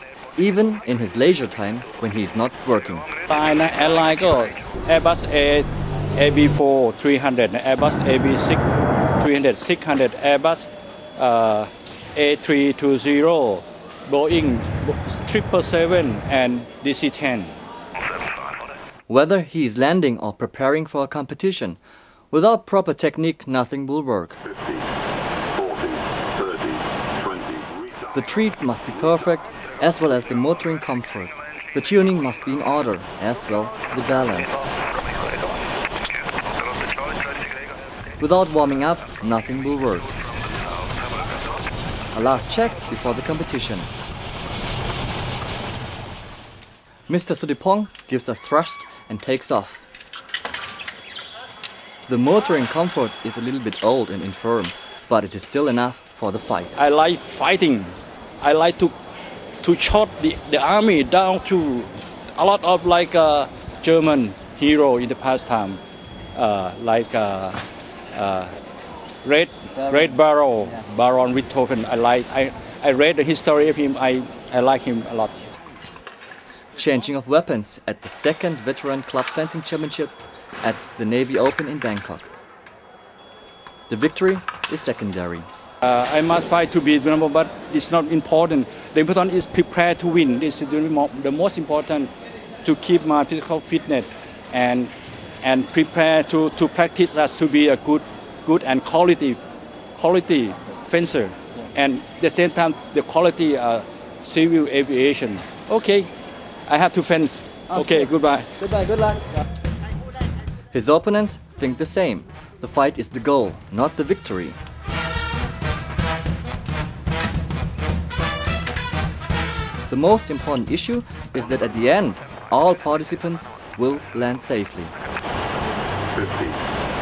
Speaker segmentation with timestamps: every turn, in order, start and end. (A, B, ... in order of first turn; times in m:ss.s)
0:00.4-0:03.1 A
0:03.3-0:08.6 B
0:09.2-0:17.6 B
0:19.1-0:21.8 A
0:22.3-0:24.4 A
0:24.5-0:24.9 C
0:25.5-0:28.0 C
0:28.1-0:34.6 A
0:38.2-0:40.1 A
0:42.1-0:43.9 A
0:47.1-0:49.8 A
0:52.1-0:56.8 A
0:56.8-0:58.9 B
0:59.6-1:05.8 B
1:06.3-1:07.6 B
1:08.1-1:08.6 B
1:09.2-1:15.5 B
1:16.8-1:22.3 A
1:23.9-1:25.5 A
1:25.8-1:32.1 B
1:32.6-1:39.4 B
1:40.0-1:46.1 B
1:46.7-1:48.6 B
1:50.7-1:54.6 A
1:59.9-2:04.9 A
2:06.1-2:06.6 C